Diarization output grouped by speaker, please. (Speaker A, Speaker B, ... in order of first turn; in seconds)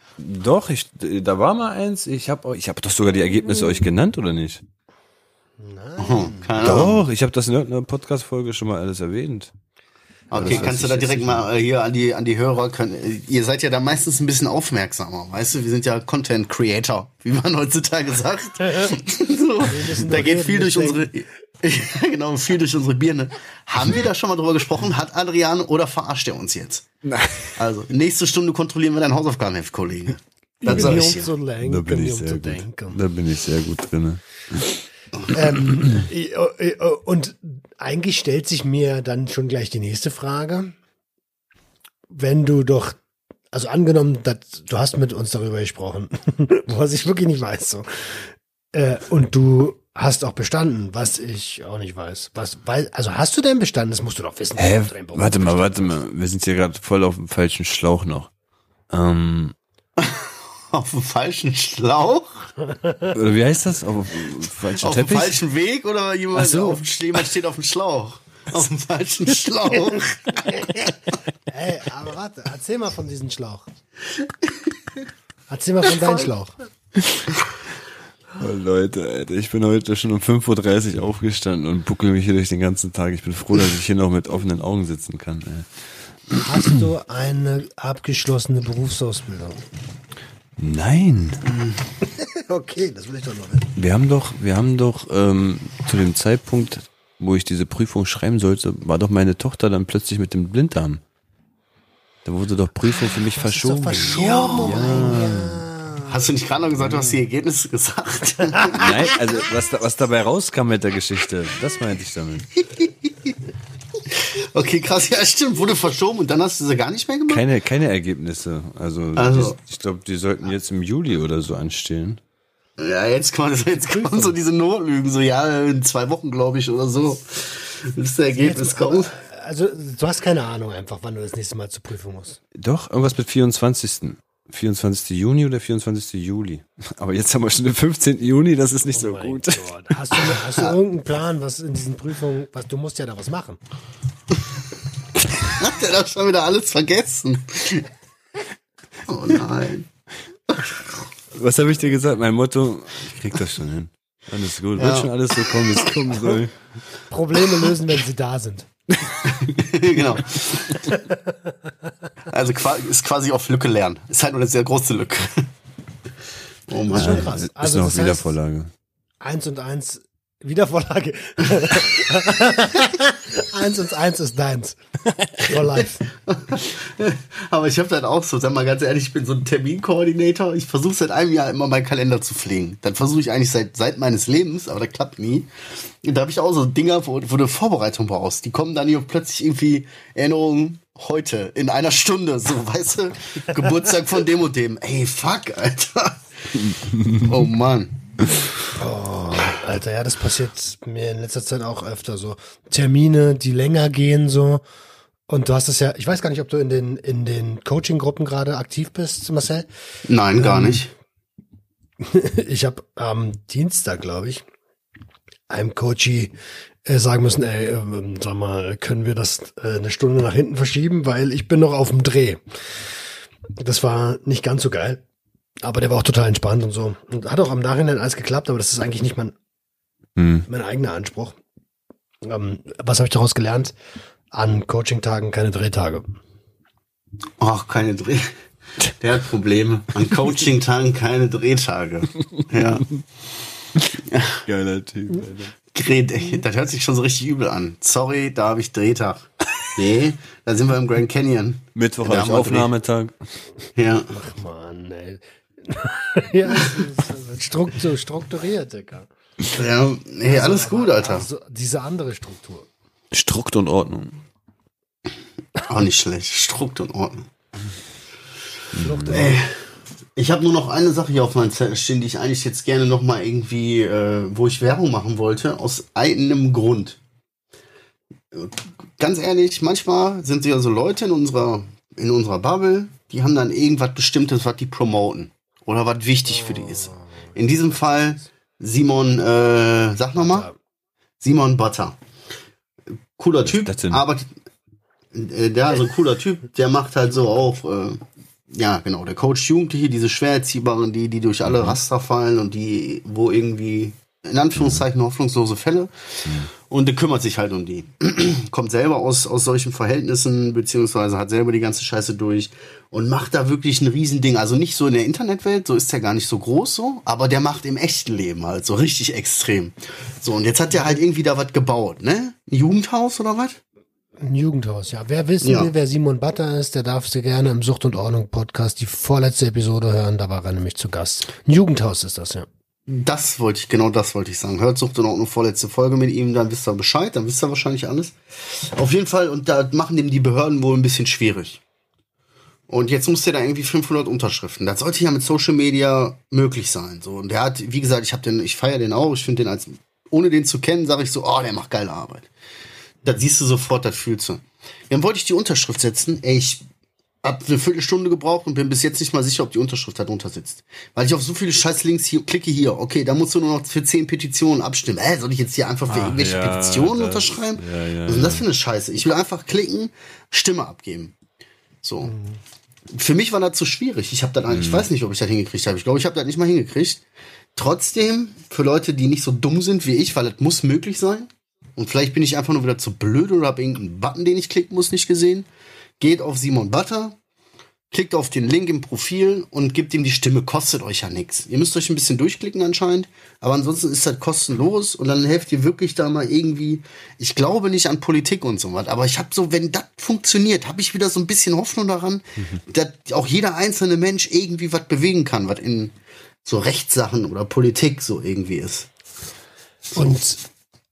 Speaker A: 0.2-4.6, 6.6-9.5, 10.3-11.4, 27.0-27.6, 30.6-34.8, 54.6-58.3, 58.9-59.5, 63.1-65.4, 66.3-66.8, 77.0-77.3, 78.4-85.9, 90.6-91.5, 93.8-101.0, 102.2-105.7, 108.7-112.5, 117.3-122.2, 132.6-140.3, 151.3-156.6, 166.9-168.7, 196.7-197.3, 230.2-230.5, 244.4-245.5, 251.8-253.2, 263.1-264.2, 268.7-269.3, 293.4-294.0, 365.9-368.4, 374.5-374.9
Speaker B: 5.6-6.7, 10.3-11.1, 19.7-21.1, 30.6-33.0, 35.3-40.8, 42.1-43.0, 43.5-56.0, 62.7-63.1, 71.5-73.7, 75.5-76.5, 86.4-89.6, 92.0-93.7, 103.4-106.3, 128.4-132.4, 138.9-143.6, 157.1-158.7, 160.8-161.7, 166.9-168.3, 169.2-174.8, 175.3-176.0, 198.7-204.6, 205.3-209.7, 210.4-210.9, 212.0-214.5, 215.5-216.3, 216.9-222.9, 223.6-225.0, 225.6-229.3, 230.5-231.4, 232.2-233.8, 234.3-236.1, 254.1-259.1, 260.2-262.7, 268.8-269.4, 286.4-287.4, 290.2-290.6, 320.8-321.0, 324.2-332.5, 372.1-372.4, 409.9-410.4
Speaker C: 6.0-7.1, 10.3-26.9, 27.6-31.3, 60.0-62.5, 64.8-70.6, 104.2-105.2, 106.0-109.0, 112.7-113.3, 114.1-117.5, 119.2-119.6, 122.8-129.2, 140.4-140.7, 145.4-147.9, 149.1-149.9, 150.5-150.9, 154.8-155.9, 159.3-160.8, 162.3-165.5, 166.7-167.3, 176.1-196.2, 197.2-198.0, 210.1-210.9, 237.4-238.3, 239.0-242.9, 244.0-244.4, 245.7-252.7, 253.8-254.1, 259.5-261.3, 265.6-267.3, 269.1-269.6, 270.2-277.0, 278.3-290.5, 291.2-292.0, 293.2-294.3, 295.1-323.6, 325.4-325.7, 332.9-341.6, 342.7-352.3, 353.0-356.6, 357.2-371.2, 371.8-372.1, 372.9-377.0, 377.6-385.5, 386.0-387.2, 387.9-408.9